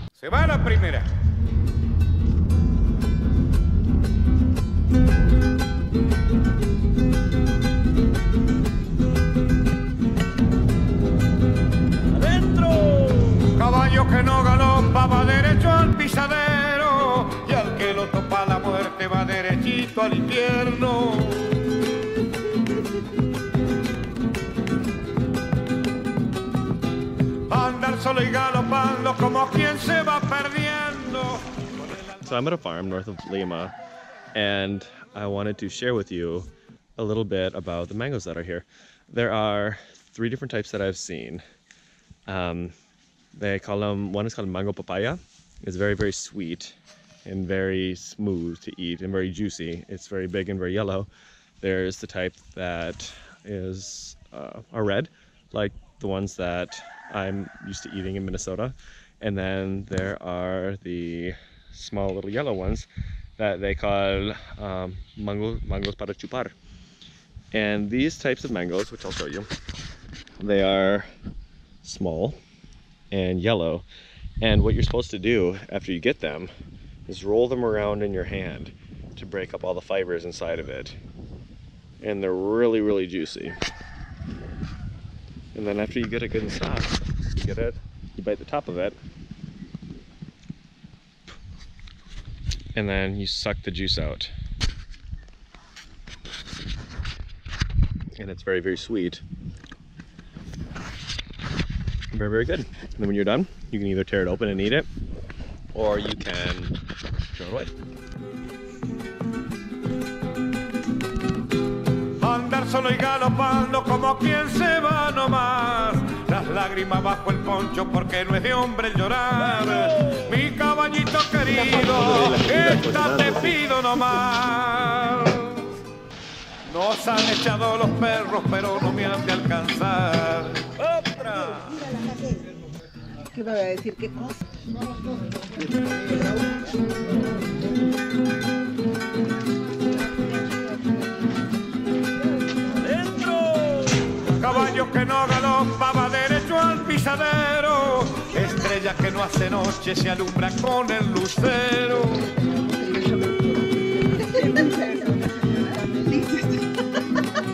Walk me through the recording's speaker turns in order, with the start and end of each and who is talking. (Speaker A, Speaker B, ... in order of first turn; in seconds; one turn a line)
Speaker A: 0.2-1.1
Speaker B: 12.2-13.3
Speaker A: 13.4-21.7
Speaker A: 27.5-31.9
Speaker B: 32.1-33.7
Speaker B: 34.3-41.4
Speaker B: 42.3-42.7
Speaker B: 43.3-51.1
Speaker B: 51.6-66.5
Speaker B: 67.5-69.5
Speaker B: 70.4-71.1
Speaker B: 71.8-72.4
Speaker B: 73.1-73.8
Speaker B: 74.4-76.5
Speaker B: 77.1-81.0
Speaker B: 82.0-83.6
Speaker B: 85.5-89.0
Speaker B: 92.7-94.3
Speaker B: 98.2-99.2
Speaker B: 102.1-104.9
Speaker B: 105.7-106.8
Speaker B: 107.3-107.7
Speaker A: 112.2-125.8
Speaker B: 121.5-123.6
Speaker A: 126.7-132.3
Speaker C: 133.3-134.3
Speaker B: 143.0-143.8
Speaker A: 144.3-152.3
Speaker C: 152.4-156.7